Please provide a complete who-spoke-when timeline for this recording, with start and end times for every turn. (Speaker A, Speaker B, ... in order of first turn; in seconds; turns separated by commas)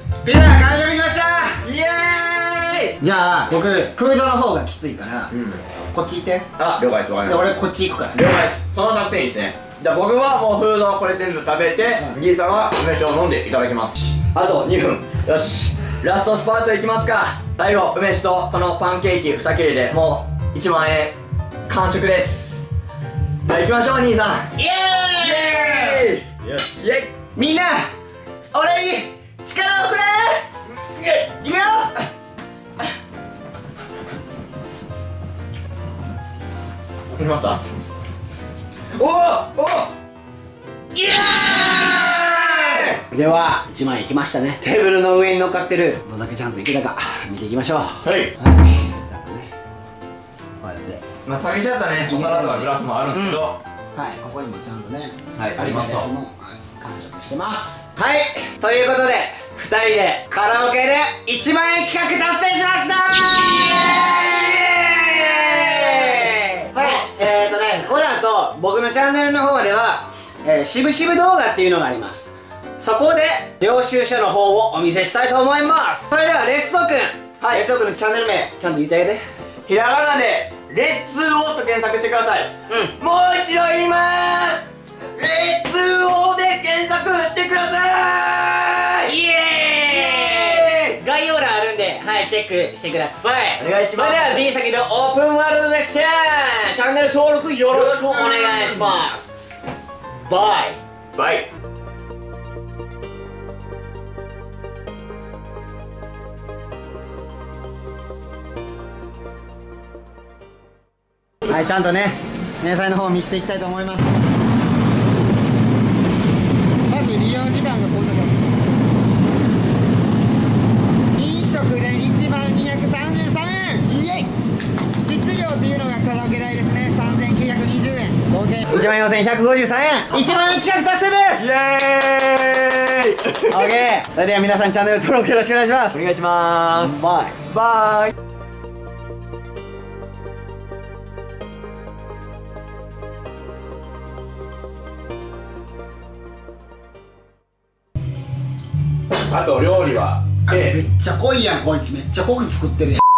Speaker A: 0.2-1.6, Speaker B: 1.6-3.0, Speaker A: 3.0-5.3, Speaker B: 5.3-5.6, Speaker A: 5.9-6.5, Speaker B: 6.6-7.5, Speaker A: 7.3-8.2, Speaker B: 8.1-21.2, Speaker B: 21.7-22.7, Speaker B: 23.4-24.5, Speaker A: 24.6-26.1, Speaker B: 25.2-27.1, Speaker A: 27.4-27.9, Speaker A: 28.5-30.4, Speaker A: 31.0-31.9, Speaker B: 37.1-37.6, Speaker B: 38.9-39.9, Speaker B: 41.0-43.0, Speaker A: 41.1-49.5, Speaker B: 48.0-48.3, Speaker A: 50.6-51.0, Speaker B: 51.2-53.6, Speaker A: 52.1-53.4, Speaker A: 54.0-79.2, Speaker B: 55.4-56.1, Speaker B: 63.7-67.0, Speaker B: 77.4-77.7, Speaker B: 79.7-84.6, Speaker A: 82.7-83.0, Speaker B: 85.2-89.2, Speaker A: 89.1-99.3, Speaker B: 89.9-91.0, Speaker B: 93.6-94.5, Speaker B: 97.7-99.1, Speaker A: 100.3-100.8, Speaker B: 101.2-101.5, Speaker A: 111.5-114.1, Speaker A: 116.9-118.4, Speaker A: 121.2-124.3, Speaker A: 125.0-131.5, Speaker B: 131.4-133.8, Speaker A: 133.5-136.1, Speaker B: 135.9-138.1, Speaker A: 136.8-137.4, Speaker B: 149.2-150.8, Speaker A: 150.5-153.0